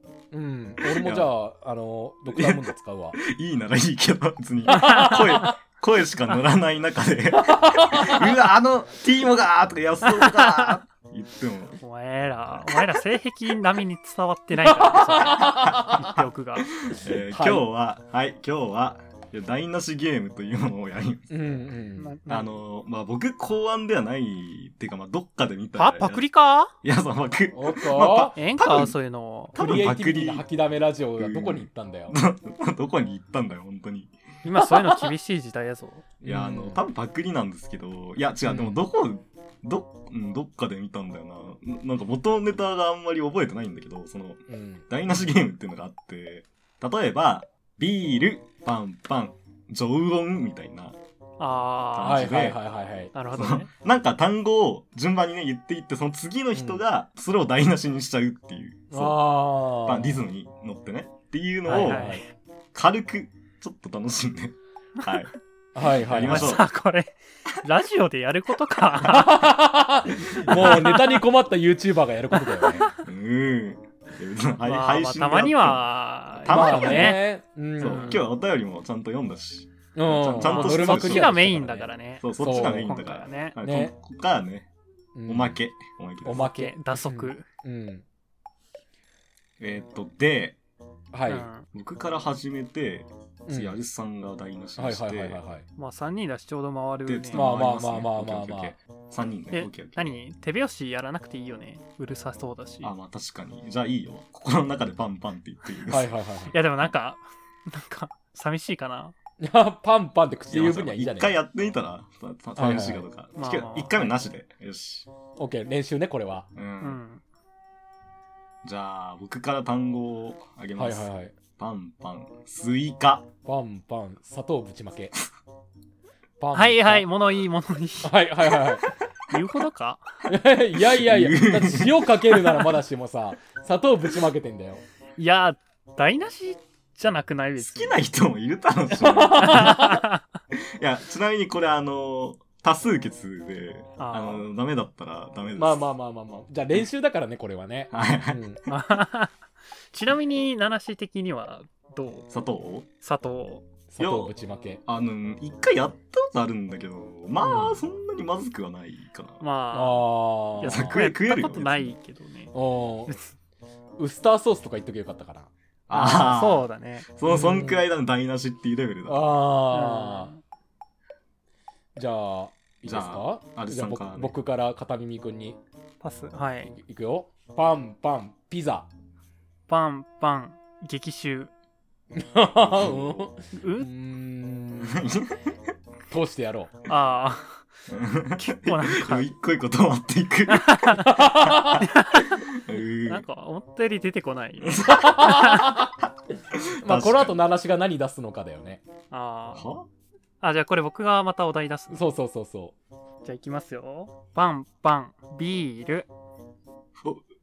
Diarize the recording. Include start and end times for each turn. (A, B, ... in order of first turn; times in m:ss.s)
0:00.3-0:03.2 A
0:00.8-0:01.3 B
0:02.3-0:11.8 B
0:04.7-0:05.5 A
0:04.7-0:05.5 C
0:07.4-0:08.3 A
0:10.1-0:10.8 C
0:11.8-0:16.7 C
0:14.6-0:16.2 A
0:15.5-0:15.9 B
0:16.9-0:21.4 B
0:17.0-0:17.6 A
0:21.3-0:22.1 A
0:22.0-0:22.6 C
0:22.3-0:26.2 B
0:25.8-0:26.7 C
0:26.8-0:28.9 B
0:27.5-0:28.4 A
0:28.4-0:29.6 C
0:29.5-0:30.4 B
0:29.5-0:32.1 A
0:31.2-0:34.1 B
0:34.4-0:36.0 C
0:34.6-0:35.1 A
0:36.2-0:36.8 A
0:36.2-0:51.0 B
0:38.4-0:38.8 A
0:44.5-0:44.8 A
0:51.4-0:52.3 C
0:51.9-0:52.6 B
0:52.0-0:53.1 A
0:53.1-0:53.7 C
0:53.3-1:02.2 B
0:56.5-0:56.8 A
0:58.9-1:00.2 A
1:01.7-1:02.2 C
1:01.7-1:02.2 A
1:02.7-1:05.3 B
1:05.7-1:06.6 A
1:05.9-1:06.7 B
1:06.2-1:09.4 C
1:09.0-1:12.9 A
1:10.3-1:11.2 C
1:10.5-1:10.8 B
1:12.3-1:12.9 C
1:13.0-1:17.2 B
1:14.6-1:17.2 C
1:16.5-1:18.2 A
1:17.8-1:21.4 B
1:17.8-1:18.2 C
1:19.9-1:23.0 A
1:20.4-1:23.6 C
1:22.2-1:24.7 B
1:23.6-1:23.9 A
1:25.1-1:25.6 A
1:25.3-1:26.5 B
1:26.2-1:28.0 A
1:26.3-1:27.4 C
1:29.6-1:30.6 B
1:31.1-1:31.5 A
1:31.3-1:31.7 C
1:31.7-1:35.4 B
1:33.5-1:33.8 A
1:34.8-1:35.6 A
1:35.8-1:37.5 C
1:37.0-1:40.2 B
1:37.3-1:38.7 A
1:39.5-1:42.9 C
1:42.8-1:46.1 B
1:45.9-1:46.5 A
1:46.5-1:49.1 C
1:49.4-1:51.4 A
1:50.5-1:55.1 B
1:52.6-1:53.0 A
1:53.4-1:54.0 C
1:55.4-1:56.5 A
1:56.5-1:57.0 B
1:56.8-1:57.2 C
1:58.6-2:03.3 B
2:00.8-2:01.3 A
2:03.4-2:05.1 A
2:06.4-2:07.1 A
2:06.5-2:08.2 C
2:08.0-2:08.8 A
2:09.3-2:10.0 C
2:10.3-2:14.8 A
2:10.7-2:12.6 B
2:15.2-2:18.0 C
2:17.6-2:19.9 B
2:18.9-2:20.0 A
2:19.4-2:20.2 C
2:20.5-2:25.8 B
2:24.0-2:24.4 C
2:25.6-2:28.6 A
2:27.9-2:28.7 B
2:28.7-2:29.3 C
2:29.9-2:32.3 C
2:32.3-2:32.9 B
2:33.0-2:33.7 C
2:33.9-2:34.8 A
2:34.0-2:34.3 B
2:34.8-2:39.4 B
2:37.4-2:37.8 A
2:39.4-2:42.5 C
2:39.7-2:41.0 A
2:40.6-2:42.0 B
2:42.5-2:43.2 A
2:44.0-2:45.5 A
2:45.9-2:49.3 B
2:45.9-2:47.1 C
2:47.2-2:47.8 A
2:49.1-2:50.3 A
2:49.7-2:50.4 C
2:52.0-2:55.6 A
2:52.8-2:54.3 B
2:56.0-2:56.7 C
2:56.7-2:58.9 A
2:59.7-3:01.5 C
3:02.1-3:05.0 A
3:02.6-3:03.3 B
3:03.5-3:03.9 C
3:04.8-3:05.4 B
3:06.1-3:06.7 A
3:06.8-3:07.6 C
3:07.9-3:11.2 B
3:08.4-3:09.3 C
3:10.5-3:11.1 C
3:11.0-3:11.9 A
3:11.7-3:12.4 C
3:12.5-3:13.2 B
3:13.0-3:15.8 C
3:14.6-3:15.1 B
3:14.8-3:15.9 A
3:16.5-3:17.4 B
3:16.8-3:18.8 A
3:19.1-3:19.7 C
3:19.5-3:19.9 B
3:20.4-3:22.0 C
3:21.9-3:22.7 A
3:23.2-3:26.1 C